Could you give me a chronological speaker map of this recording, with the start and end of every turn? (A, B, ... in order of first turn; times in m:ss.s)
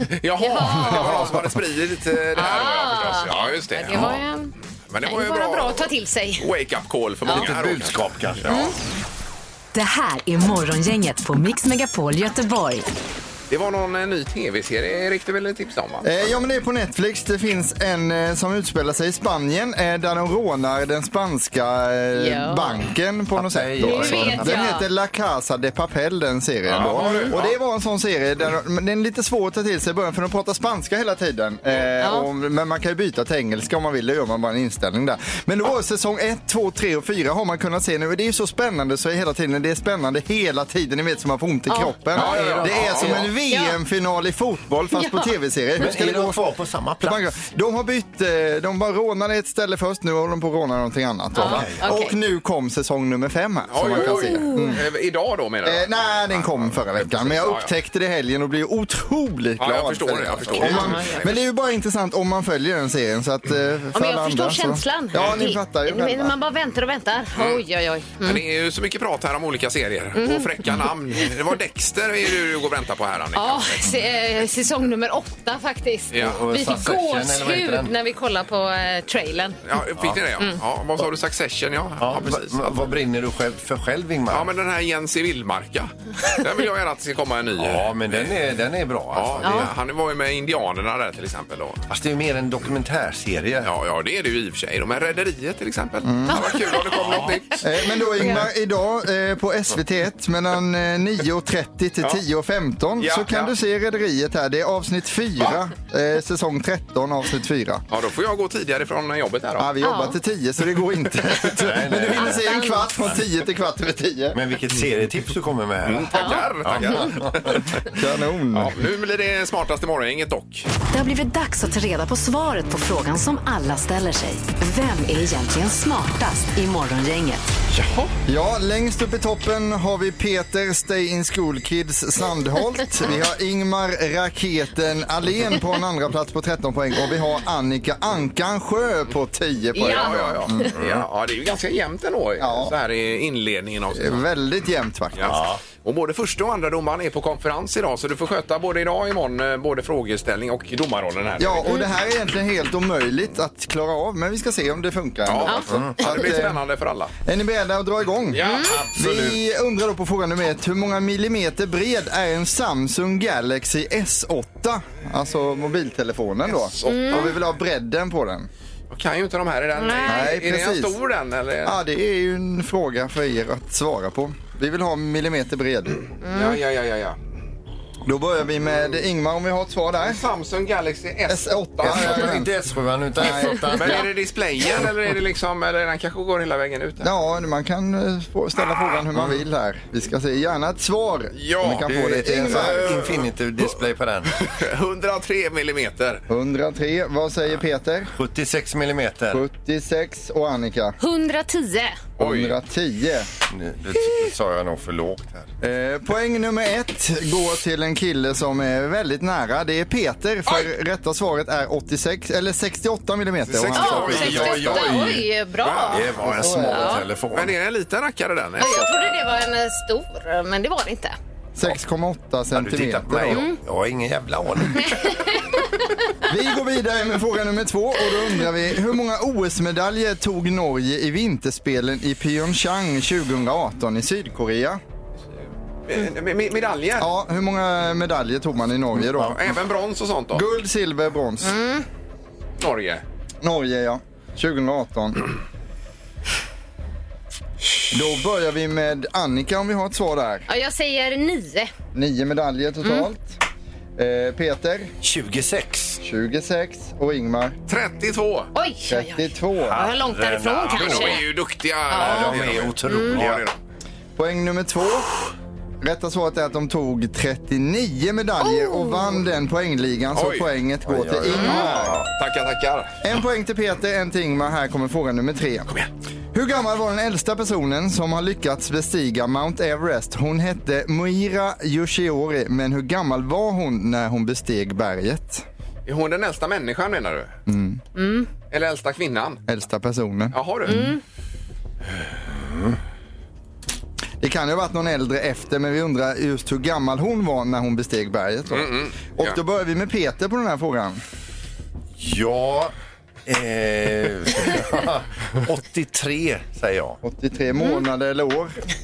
0:00.1-0:04.2 A
0:00.4-0:01.3 B
0:02.4-0:04.5 B
0:04.9-0:08.5 A
0:05.0-0:06.5 B
0:07.3-0:08.7 C
0:08.5-0:08.7 B
0:09.7-0:12.9 D
0:13.5-0:16.1 A
0:16.0-0:46.4 E
0:22.2-0:22.8 B
0:23.4-0:24.7 C
0:23.8-0:24.8 B
0:26.7-0:27.6 A
0:27.0-0:27.3 B
0:32.0-0:32.3 B
0:41.7-0:42.0 B
0:42.1-0:43.3 A
0:42.2-0:43.3 C
0:43.5-0:43.8 B
0:44.9-0:45.3 B
0:45.8-0:47.3 C
0:47.0-0:54.8 E
0:51.4-0:52.2 B
0:51.4-0:51.8 C
0:53.7-0:57.7 A
0:53.9-0:54.8 B
0:55.6-1:06.3 E
0:59.6-1:01.4 A
1:00.6-1:01.3 B
1:03.9-1:08.4 B
1:07.4-1:07.6 A
1:08.2-1:13.9 A
1:10.2-1:10.8 B
1:13.4-1:19.6 B
1:16.1-1:16.4 A
1:16.1-1:18.0 C
1:19.7-1:22.9 A
1:22.0-1:24.5 C
1:24.3-1:28.4 A
1:27.6-1:29.7 C
1:29.1-1:31.8 A
1:29.4-1:29.7 B
1:31.9-1:33.7 C
1:33.6-1:37.6 A
1:36.0-1:36.6 E
1:36.3-1:37.4 B
1:37.6-1:47.8 E
1:43.0-1:43.5 A
1:47.9-1:49.7 A
1:49.6-1:54.4 E
1:49.8-1:50.2 B
1:51.6-1:52.5 C
1:52.1-1:52.9 B
1:54.3-1:57.6 C
1:55.8-1:57.8 A
1:56.1-1:57.2 B
1:57.9-1:58.8 E
1:58.5-2:00.7 A
2:00.9-2:07.5 D
2:07.7-2:08.1 A
2:08.3-2:20.7 E
2:19.7-2:20.7 B
2:19.8-2:24.2 A
2:20.8-2:21.1 C
2:22.4-2:22.7 E
2:23.9-2:25.4 E
2:25.2-2:31.7 A
2:25.3-2:25.6 C
2:31.4-2:36.6 E
2:35.3-2:37.1 A
2:37.2-2:38.4 E
2:38.3-2:38.9 A
2:38.4-2:38.8 B
2:38.6-2:39.4 C
2:39.0-2:48.5 E
2:46.5-2:47.4 A
2:46.8-2:47.3 B
2:48.9-2:51.8 A
2:49.8-2:50.3 B
2:50.1-2:51.0 E
2:51.6-2:56.1 E
2:56.2-2:56.6 B
2:56.2-2:57.2 A
2:58.1-3:00.2 E
3:00.0-3:02.4 A
3:01.3-3:02.5 E
3:01.8-3:04.1 C
3:03.2-3:04.0 E
3:03.7-3:07.1 A
3:07.0-3:13.1 E
3:11.4-3:13.2 A
3:11.9-3:14.5 C
3:14.4-3:16.2 A
3:16.3-3:18.1 E
3:18.1-3:19.4 C
3:19.3-3:21.0 E
3:21.0-3:22.0 B
3:22.2-3:22.6 A
3:22.2-3:23.3 E
3:23.5-3:25.5 C
3:25.6-3:34.9 E
3:33.5-3:35.0 A
3:33.7-3:35.3 C
3:33.7-3:37.0 B
3:35.6-3:36.2 A
3:35.9-3:37.6 C
3:36.2-3:37.0 E
3:37.3-3:39.2 A
3:38.6-3:41.2 B
3:41.6-3:43.4 E
3:42.5-3:45.2 C
3:44.8-3:45.6 B
3:46.2-3:54.8 E
3:55.9-3:57.1 A
3:57.0-3:59.4 E
3:59.2-4:00.4 A
4:00.3-4:01.6 E
4:01.4-4:01.8 B
4:02.6-4:03.0 A
4:03.4-4:05.3 E
4:07.9-4:10.5 E
4:10.5-4:11.7 B
4:11.9-4:13.4 E
4:14.0-4:14.9 E
4:15.0-4:16.0 C
4:16.0-4:17.6 E
4:17.7-4:18.5 A
4:18.5-4:21.2 B
4:18.9-4:19.8 E
4:19.6-4:21.2 C
4:20.7-4:23.6 A
4:21.9-4:23.2 B
4:21.9-4:23.5 C
4:24.2-4:25.1 E
4:25.8-4:32.0 E
4:28.4-4:29.2 B
4:30.1-4:30.5 A
4:30.9-4:32.1 C
4:31.3-4:32.9 A
4:33.0-4:35.7 E
4:36.3-4:45.4 E
4:45.9-4:47.3 A
4:47.5-4:47.8 E
4:48.0-4:48.3 B
4:48.5-4:49.4 A
4:49.5-4:50.9 E
4:50.3-4:50.8 A
4:50.7-4:51.0 B
4:52.3-4:52.8 C
4:54.2-5:01.0 E
4:58.5-4:59.4 A
5:02.0-5:02.7 C
5:03.3-5:07.0 C
5:07.0-5:08.6 E